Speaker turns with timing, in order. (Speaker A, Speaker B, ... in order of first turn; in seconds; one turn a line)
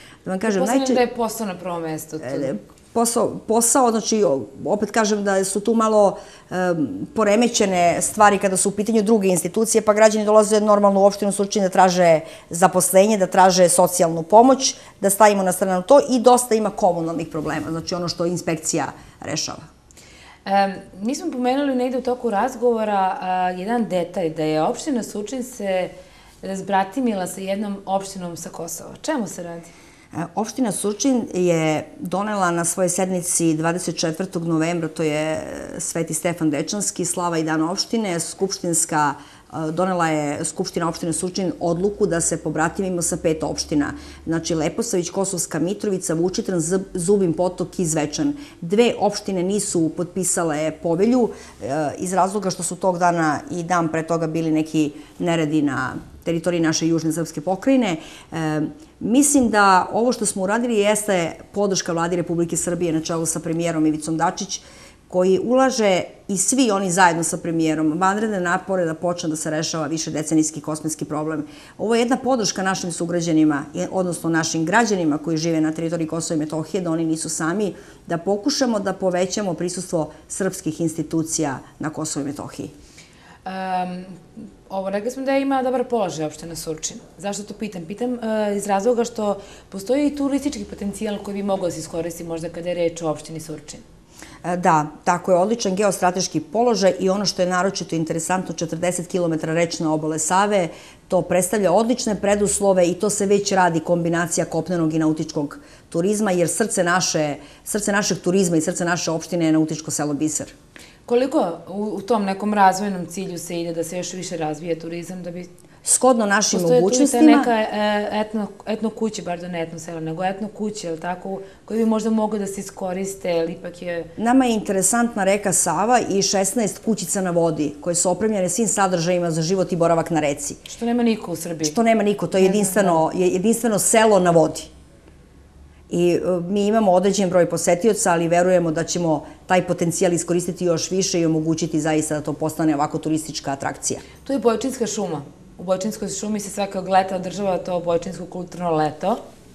Speaker A: 0.2-1.0
Speaker B: 0.4-2.6
Speaker A: 2.2-19.6
Speaker B: 20.4-29.7
Speaker A: 30.1-82.7
Speaker B: 83.4-93.8
Speaker A: 94.4-110.5
Speaker B: 111.1-115.5
Speaker A: 115.8-117.5
Speaker B: 116.5-124.1
Speaker A: 124.2-130.6
Speaker B: 130.7-131.8
Speaker A: 131.6-134.7
Speaker B: 132.4-133.0
Speaker A: 135.9-144.0
Speaker B: 144.2-149.2